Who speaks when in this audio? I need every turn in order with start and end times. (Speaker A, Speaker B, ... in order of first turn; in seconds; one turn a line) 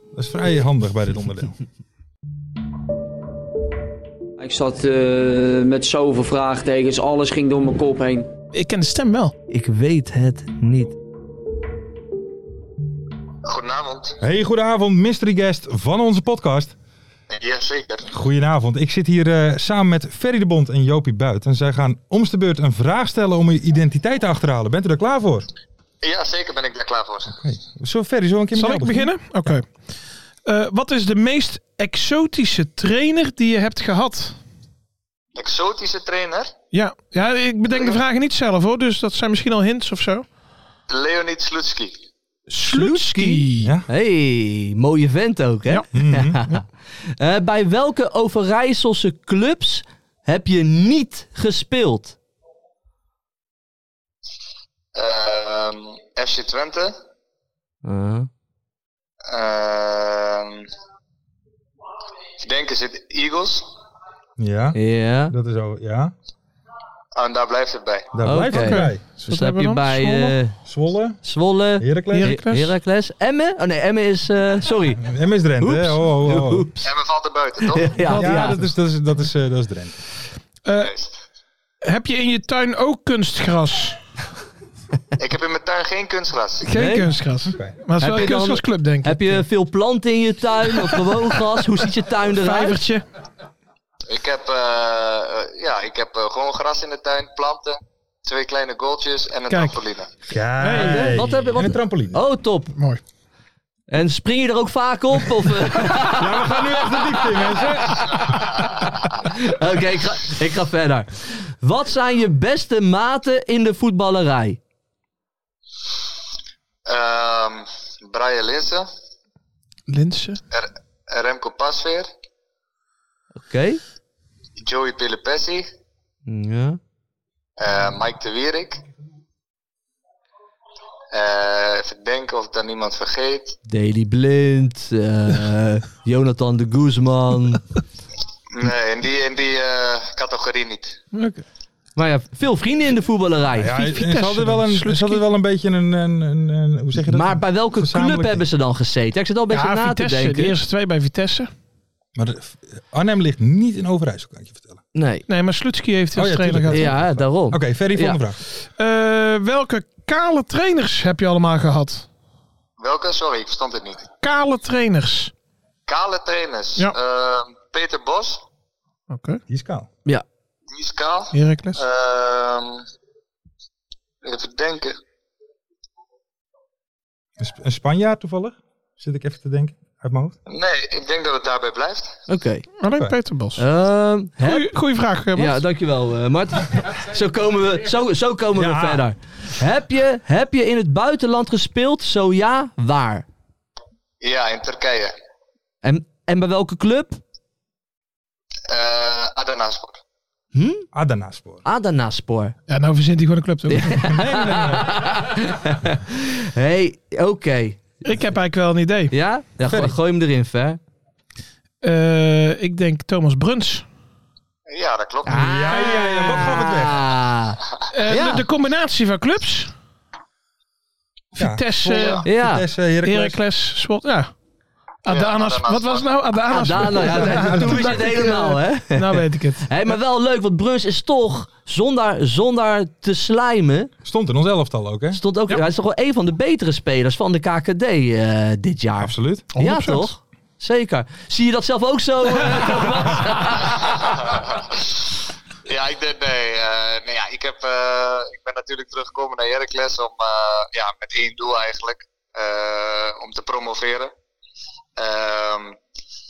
Speaker A: 0.1-1.6
Speaker B: 4.4-8.3
Speaker C: 8.5-9.3
Speaker D: 9.5-11.0
Speaker E: 13.4-14.2
Speaker A: 14.2-16.7
Speaker E: 17.3-18.1
Speaker A: 18.1-25.5
Speaker E: 26.0-27.4
Speaker A: 27.3-29.6
Speaker C: 28.5-29.7
Speaker C: 30.4-34.4
Speaker E: 35.4-36.5
Speaker C: 36.7-40.2
Speaker E: 37.7-38.0
Speaker E: 40.9-42.0
Speaker C: 42.5-43.7
Speaker D: 42.6-52.2
Speaker A: 43.6-43.9
Speaker A: 45.9-46.4
Speaker E: 54.9-57.0
Speaker D: 57.8-58.3
Speaker E: 59.3-60.7
Speaker E: 62.4-63.7
Speaker A: 64.4-66.1
Speaker D: 64.7-65.3
Speaker E: 67.1-68.1
Speaker A: 68.1-69.0
Speaker D: 68.2-70.5
Speaker C: 68.5-70.4
Speaker A: 70.6-71.2
Speaker D: 71.2-75.0
Speaker A: 71.8-72.3
Speaker C: 72.1-72.7
Speaker A: 75.0-76.7
Speaker D: 75.6-76.9
Speaker E: 76.8-78.0
Speaker D: 77.7-78.6
Speaker A: 78.1-80.0
Speaker C: 80.6-80.9
Speaker E: 80.8-81.2
Speaker C: 81.8-84.0
Speaker E: 85.2-86.7
Speaker C: 86.6-89.4
Speaker D: 86.7-87.1
Speaker D: 88.0-92.8
Speaker C: 90.7-91.6
Speaker C: 92.2-93.0
Speaker E: 94.1-100.1
Speaker C: 99.5-99.8
Speaker A: 100.3-102.2
Speaker C: 100.6-101.2
Speaker D: 100.6-102.7
Speaker C: 102.7-103.0
Speaker D: 103.9-108.3
Speaker A: 105.9-108.4
Speaker D: 109.2-114.6
Speaker E: 116.8-118.9
Speaker C: 119.9-120.4
Speaker E: 120.5-122.1
Speaker D: 123.4-123.8
Speaker E: 124.6-125.7
Speaker D: 126.3-126.8
Speaker E: 127.6-128.8
Speaker E: 131.1-133.6
Speaker D: 133.7-137.6
Speaker E: 138.5-141.0
Speaker C: 141.1-141.4
Speaker D: 141.9-143.7
Speaker A: 143.6-148.4
Speaker C: 143.7-145.2
Speaker D: 147.0-150.6
Speaker C: 149.5-151.5
Speaker A: 152.2-154.8
Speaker D: 154.9-155.2
Speaker C: 155.3-156.9
Speaker A: 156.1-158.4
Speaker D: 156.7-158.2
Speaker C: 158.8-162.1
Speaker E: 162.8-164.1
Speaker C: 164.2-165.3
Speaker E: 165.9-168.4
Speaker C: 169.1-169.4
Speaker A: 169.5-169.9
Speaker E: 170.7-172.8
Speaker C: 171.3-171.8
Speaker E: 174.2-175.0
Speaker A: 177.4-180.3
Speaker E: 180.5-182.2
Speaker D: 182.3-182.7
Speaker C: 182.8-183.6
Speaker D: 183.6-184.7
Speaker C: 184.4-185.6
Speaker D: 185.3-193.2
Speaker A: 188.5-189.0
Speaker E: 194.2-195.1
Speaker D: 195.8-197.2
Speaker E: 198.7-200.0
Speaker D: 200.5-200.9
Speaker A: 200.9-201.6
Speaker D: 201.6-202.5
Speaker C: 202.7-204.1
Speaker D: 203.7-207.8
Speaker A: 204.0-205.1
Speaker C: 208.0-209.1
Speaker D: 209.1-210.8
Speaker A: 209.6-209.9
Speaker C: 211.8-213.8
Speaker E: 214.7-215.9
Speaker D: 215.2-218.4
Speaker A: 215.4-217.0
Speaker C: 216.0-216.6
Speaker C: 217.9-219.7
Speaker A: 221.3-223.4
Speaker C: 221.4-222.2
Speaker E: 221.9-222.2
Speaker D: 222.2-222.6
Speaker C: 223.0-224.3
Speaker C: 225.0-229.7
Speaker E: 225.1-226.2
Speaker D: 226.5-233.9
Speaker A: 227.0-228.3
Speaker A: 234.0-235.2
Speaker D: 235.1-244.0
Speaker A: 239.0-239.5
Speaker C: 239.5-240.1
Speaker E: 243.6-244.9
Speaker E: 245.7-254.1
Speaker E: 255.0-255.8